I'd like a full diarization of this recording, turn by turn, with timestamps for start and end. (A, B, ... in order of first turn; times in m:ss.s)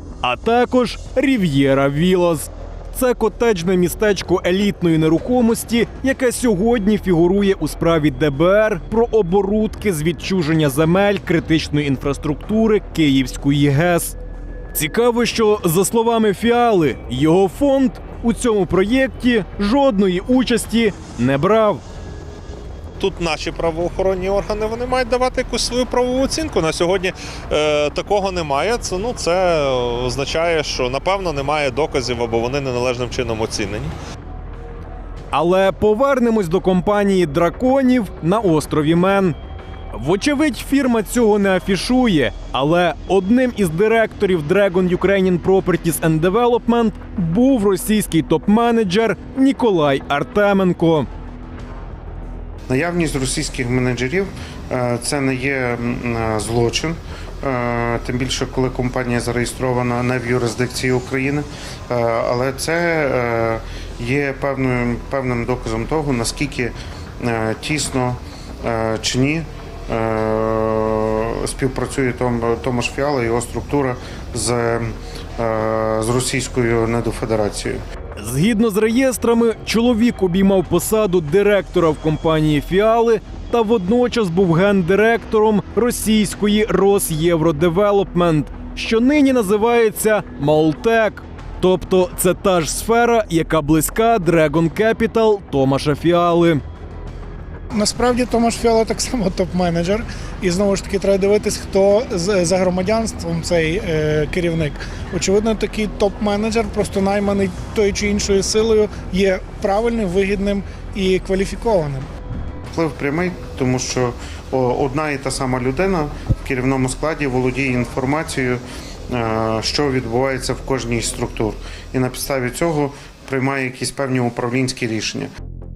0:00.2-0:14.2 A
0:14.7-0:21.8 A
0:23.0-0:33.9 B
0:35.3-0:39.4 A
0:39.9-0:51.1 A
0:52.7-1:17.8 C
1:18.2-1:36.6 A
1:37.7-1:52.1 D
1:52.7-2:05.3 C